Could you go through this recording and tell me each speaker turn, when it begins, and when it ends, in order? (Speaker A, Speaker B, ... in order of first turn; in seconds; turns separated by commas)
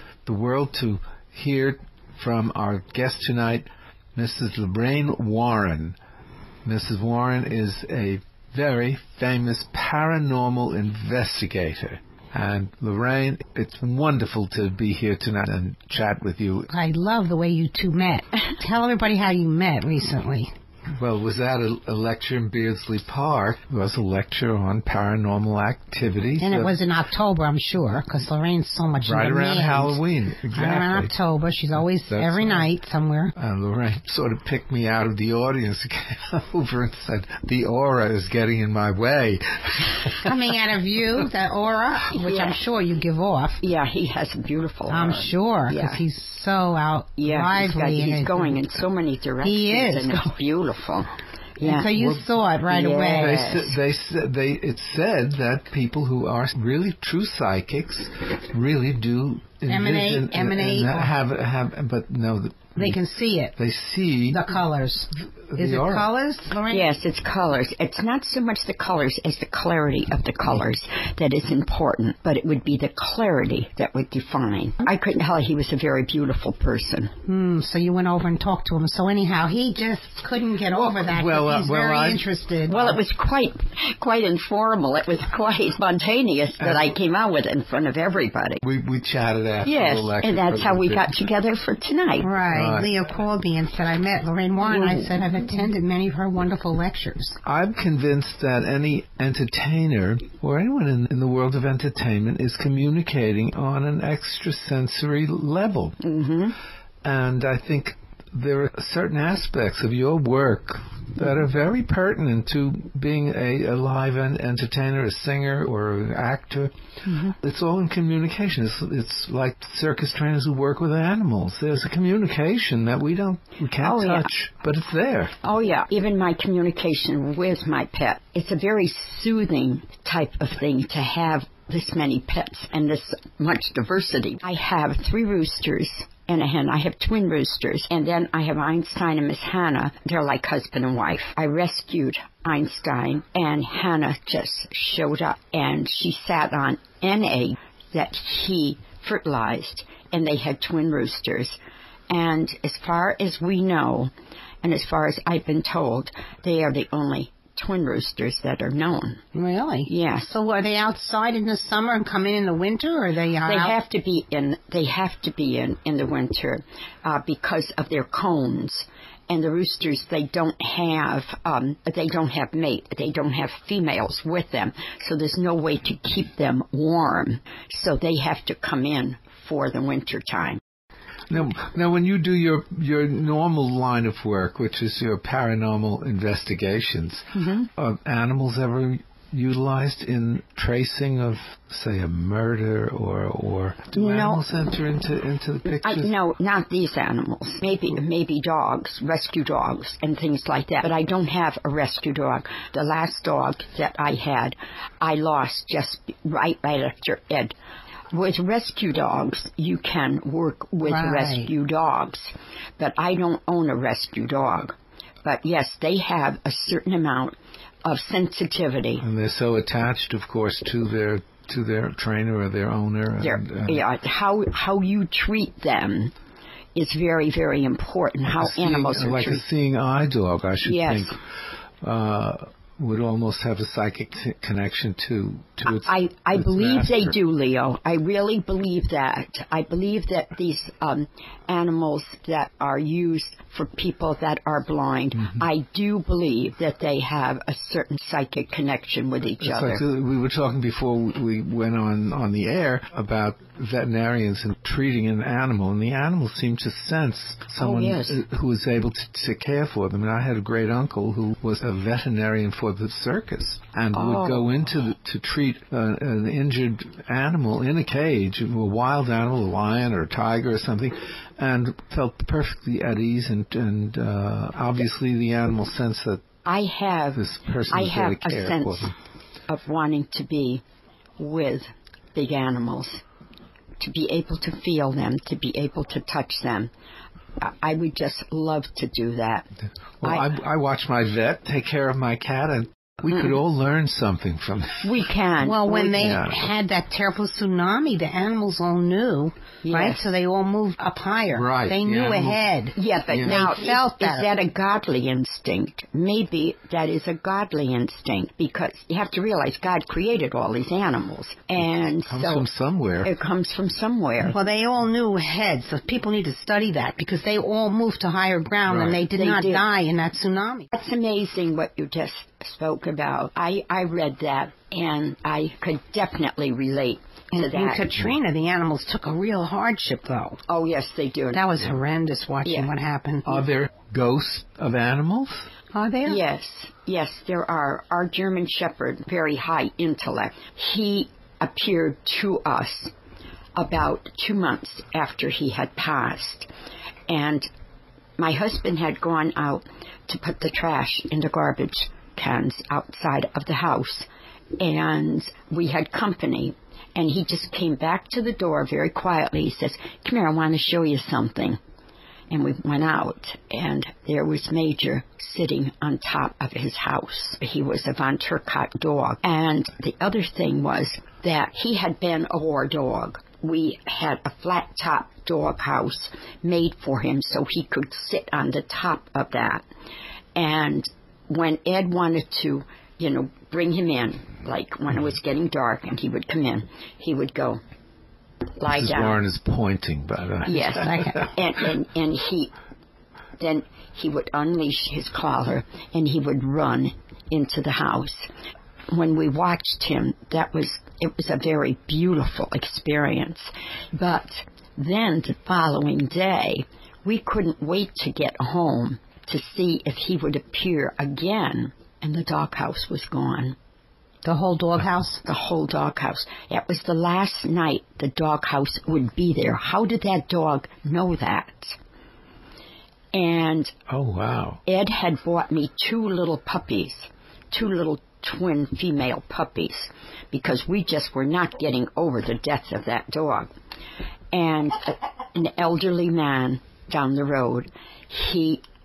Speaker A: 0.2-6.0, Speaker A: 6.6-16.7, Speaker B: 16.7-20.5, Speaker A: 20.9-26.8, Speaker B: 26.4-30.0, Speaker A: 29.0-31.1, Speaker B: 30.5-33.3, Speaker A: 32.1-32.7, Speaker A: 33.4-40.3, Speaker B: 40.1-43.6, Speaker C: 42.1-42.6, Speaker C: 43.6-46.0, Speaker B: 44.9-48.6, Speaker C: 47.2-51.9, Speaker B: 49.4-50.3, Speaker B: 51.6-53.6, Speaker A: 51.9-63.0, Speaker C: 52.7-53.7, Speaker B: 59.7-61.1, Speaker B: 62.8-63.5, Speaker A: 63.5-64.4, Speaker B: 64.3-66.9, Speaker A: 65.5-66.1, Speaker C: 66.7-77.1, Speaker B: 77.2-83.0, Speaker A: 80.7-82.2, Speaker C: 82.7-88.6, Speaker A: 86.6-86.9, Speaker A: 88.6-91.1, Speaker C: 89.6-92.3, Speaker B: 92.2-97.4, Speaker A: 92.5-92.9, Speaker A: 97.4-106.0, Speaker C: 106.0-106.6, Speaker A: 107.0-116.7, Speaker C: 117.0-117.3, Speaker A: 117.3-125.3, Speaker C: 123.8-124.3, Speaker C: 125.4-151.6, Speaker C: 152.1-154.1, Speaker C: 154.6-159.2, Speaker B: 159.3-163.7, Speaker C: 159.9-160.3, Speaker C: 163.4-180.6, Speaker A: 181.3-196.1, Speaker C: 187.3-187.7, Speaker C: 193.9-194.4, Speaker C: 195.7-207.5, Speaker C: 208.1-219.0, Speaker B: 210.8-211.5, Speaker A: 219.0-223.8, Speaker C: 223.2-226.1, Speaker C: 226.7-229.4, Speaker A: 228.3-231.2, Speaker C: 230.6-231.2, Speaker A: 231.8-237.2, Speaker C: 235.6-249.8, Speaker A: 249.4-276.2, Speaker C: 257.6-258.2, Speaker C: 263.9-264.4, Speaker C: 276.4-278.9, Speaker A: 277.1-278.9, Speaker C: 279.5-280.6, Speaker C: 281.2-283.0, Speaker C: 283.8-286.7, Speaker C: 287.4-289.5, Speaker A: 290.0-294.9, Speaker C: 290.0-290.3, Speaker C: 294.8-296.2, Speaker B: 295.4-304.3, Speaker A: 296.0-296.5, Speaker C: 299.6-300.1, Speaker A: 301.3-302.4, Speaker C: 302.7-312.5, Speaker A: 303.1-303.4, Speaker A: 312.1-313.1, Speaker C: 313.0-314.3, Speaker B: 314.3-320.7, Speaker A: 318.6-319.0, Speaker C: 319.1-319.6, Speaker C: 320.7-327.9, Speaker B: 327.3-330.4, Speaker C: 330.5-331.4, Speaker B: 331.3-333.4, Speaker C: 332.4-332.7, Speaker A: 333.2-335.5, Speaker B: 335.7-336.2, Speaker C: 336.0-342.9, Speaker C: 343.6-346.5, Speaker C: 347.1-347.5, Speaker C: 348.2-354.1, Speaker C: 354.6-361.6, Speaker C: 362.3-379.6, Speaker C: 380.3-387.6, Speaker C: 388.6-389.2, Speaker A: 388.7-391.3, Speaker C: 390.5-392.5, Speaker B: 390.6-391.3, Speaker C: 393.4-398.3, Speaker C: 398.9-413.6, Speaker B: 414.2-415.2, Speaker C: 415.2-421.8, Speaker C: 423.1-423.7, Speaker A: 423.9-424.6, Speaker C: 424.6-433.5, Speaker C: 434.3-438.6